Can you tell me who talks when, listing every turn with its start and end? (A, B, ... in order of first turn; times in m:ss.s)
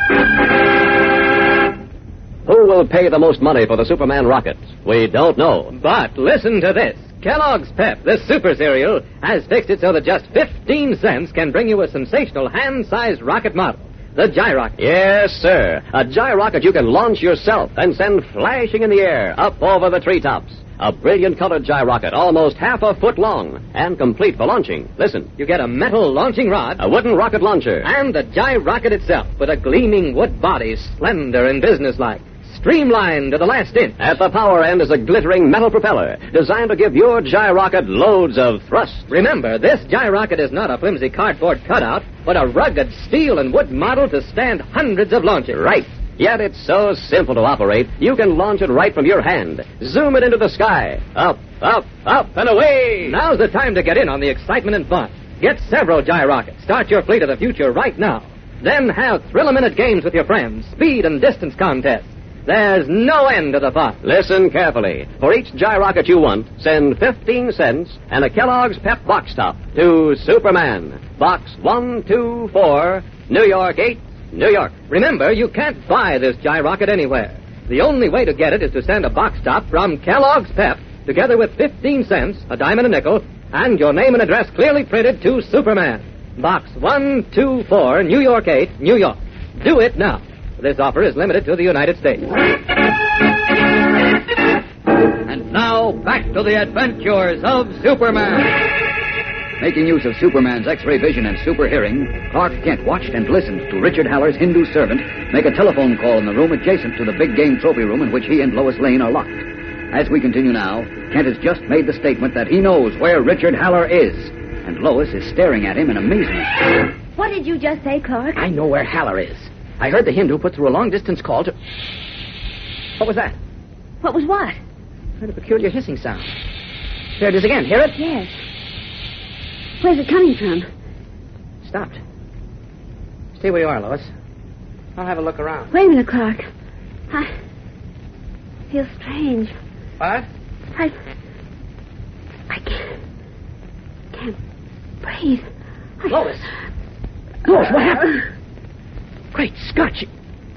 0:02.5-0:05.7 A
0:05.7-0:14.8 B
0:14.8-0:25.3 A
0:25.4-0:26.8 B
0:26.8-0:27.9 A
0:27.8-0:34.0 B
0:34.0-0:39.1 A
0:39.1-0:45.7 B
0:45.5-0:53.2 A
0:53.0-1:04.0 B
1:04.0-1:14.7 A
1:14.9-1:32.3 B
1:35.2-1:38.7 C
1:39.6-1:56.5 C
1:57.2-1:58.4 D
1:58.4-2:01.5 E
2:03.0-2:03.3 E
2:04.0-2:04.6 D
2:05.2-2:06.3 E
2:07.2-2:08.0 E
2:07.9-2:08.3 D
2:09.8-2:10.7 D
2:11.6-2:12.0 E
2:13.4-2:14.1 E
2:15.0-2:15.7 E
2:15.7-2:16.4 D
2:18.7-2:19.5 D
2:20.0-2:20.2 E
2:22.5-2:22.9 D
2:25.0-2:25.4 D
2:26.1-2:26.5 E
2:27.5-2:28.2 E
2:29.3-2:30.1 E